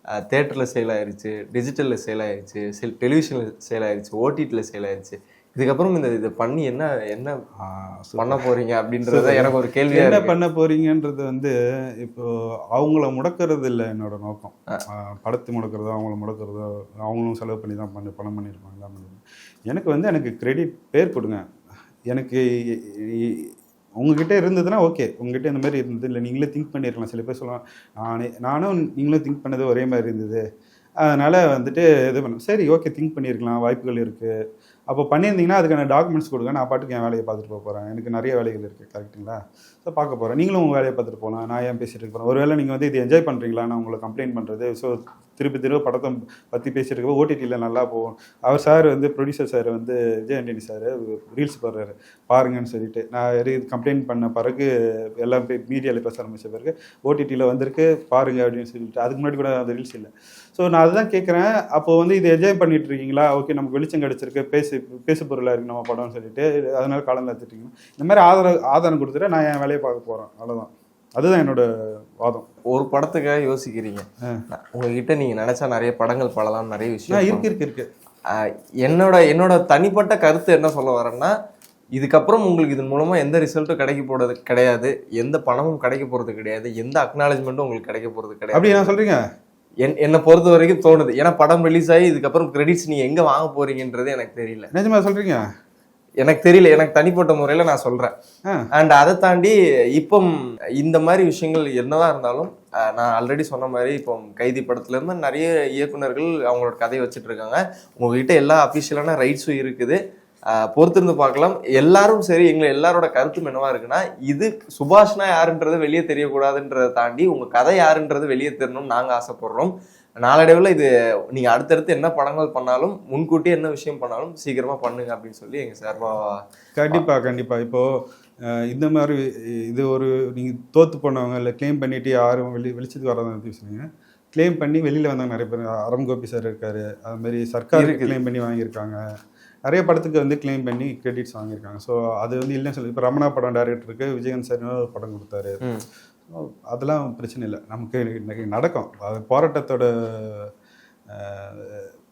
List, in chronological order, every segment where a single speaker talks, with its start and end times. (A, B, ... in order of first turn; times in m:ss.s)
0:00.3-0:07.3 A
0:07.6-0:08.4 B
0:08.2-0:10.3 A
0:09.1-0:21.4 B
0:22.1-0:30.4 B
0:31.0-0:34.3 B
0:34.9-1:11.7 B
1:12.2-1:12.5 B
1:12.7-1:17.5 A
1:17.1-1:17.9 B
1:18.3-1:21.3 A
1:22.0-1:28.9 A
1:28.5-1:29.2 B
1:29.8-1:34.7 A
1:34.7-1:35.4 B
1:36.2-1:38.1 A
1:38.8-1:50.0 A
1:50.7-2:06.4 A
2:06.8-2:07.9 B
2:08.5-2:19.0 B
2:17.8-2:18.2 A
2:19.7-2:25.6 B
2:26.3-2:30.5 B
2:31.1-2:31.9 B